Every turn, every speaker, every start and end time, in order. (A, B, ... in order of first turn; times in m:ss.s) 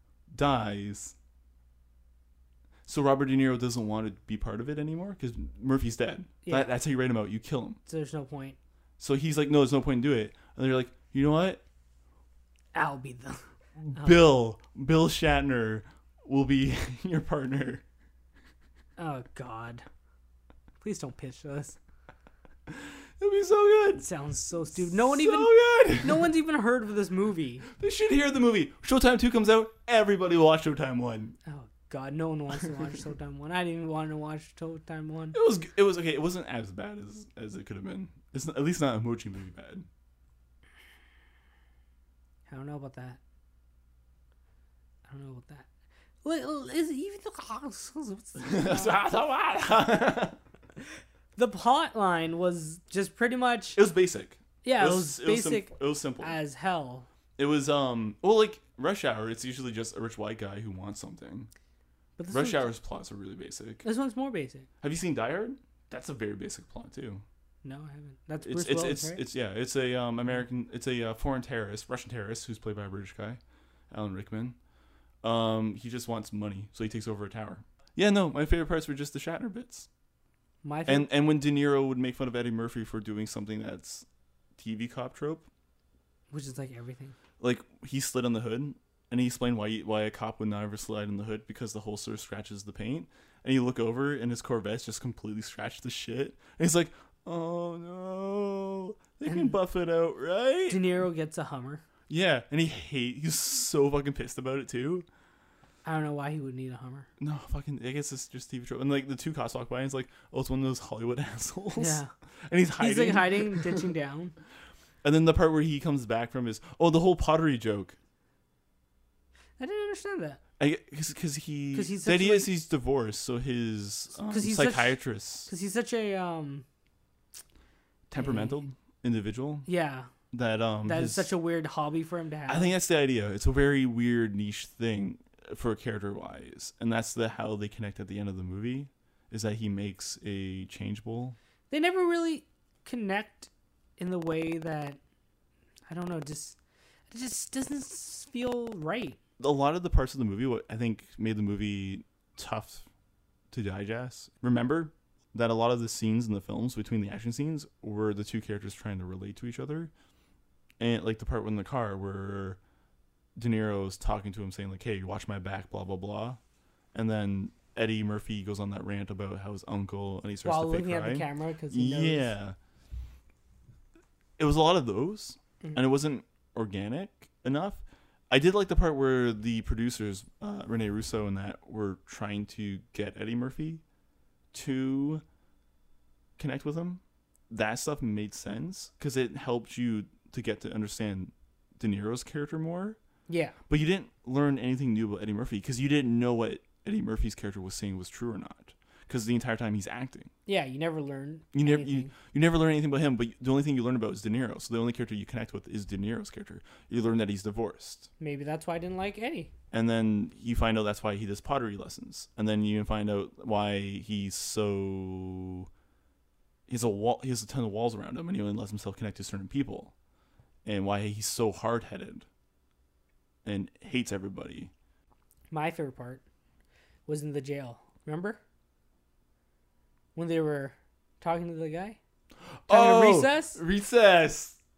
0:00.3-0:01.1 A
0:02.8-0:07.8 A
0:06.4-0:06.7 B
0:07.8-0:08.6 B
0:09.0-0:11.6 A
0:12.7-0:13.4 B
0:13.8-0:17.8 A
0:13.9-0:14.2 B
0:19.0-0:19.8 B
0:20.8-0:21.8 B
0:22.7-0:24.0 A
0:24.0-0:27.6 B
0:24.8-0:26.3 A
0:27.7-0:31.4 A
0:31.4-0:35.4 B
0:35.3-0:39.8 A
0:42.5-0:43.2 B
0:45.1-0:45.6 B
0:46.2-0:49.0 B
0:48.4-0:50.4 A
0:51.4-0:53.8 B
0:53.8-0:56.4 A
0:54.6-0:57.1 B
0:57.4-1:01.5 A
1:02.2-1:02.7 B
1:02.3-1:03.8 A
1:03.8-1:04.7 B
1:04.8-1:07.2 A
1:07.6-1:09.2 B
1:08.4-1:13.4 A
1:13.9-1:14.6 A
1:15.2-1:19.9 A
1:20.6-1:21.1 B
1:20.8-1:24.0 A
1:24.6-1:25.4 A
1:26.3-1:27.1 B
1:27.4-1:40.8 A
1:39.2-1:39.6 B
1:40.7-1:41.8 B
1:42.1-1:45.0 A
1:45.8-1:47.1 B
1:47.2-1:53.8 A
1:51.8-1:52.1 B
1:52.8-1:54.3 B
1:55.0-1:58.0 A
1:59.6-2:00.4 B
2:00.6-2:05.5 A
2:01.7-2:02.5 B
2:04.3-2:06.6 B
2:08.1-2:09.7 A
2:08.2-2:08.6 B
2:09.7-2:10.1 B
2:10.3-2:11.3 A
2:10.8-2:12.7 B
2:12.5-2:21.4 A
2:21.7-2:25.0 B
2:25.9-2:26.6 B
2:27.1-2:29.2 B
2:29.4-2:32.8 A
2:33.5-2:39.9 A
2:40.8-2:42.6 A
2:43.4-2:46.4 A
2:46.9-2:52.6 A
2:50.4-2:52.3 B
2:54.4-3:03.8 A
3:04.5-3:05.2 A
3:06.4-3:13.0 A
3:13.3-3:13.6 B
3:13.7-3:20.3 A
3:20.4-3:22.1 B
3:21.5-3:28.1 A
3:28.2-3:29.5 B
3:29.7-3:35.7 A
3:36.7-3:39.9 A
3:40.6-3:42.2 A
3:43.4-3:44.7 A
3:45.5-3:46.2 B
3:47.1-3:48.4 B
3:50.1-3:52.0 B
3:52.6-3:54.6 A
3:52.7-3:53.6 B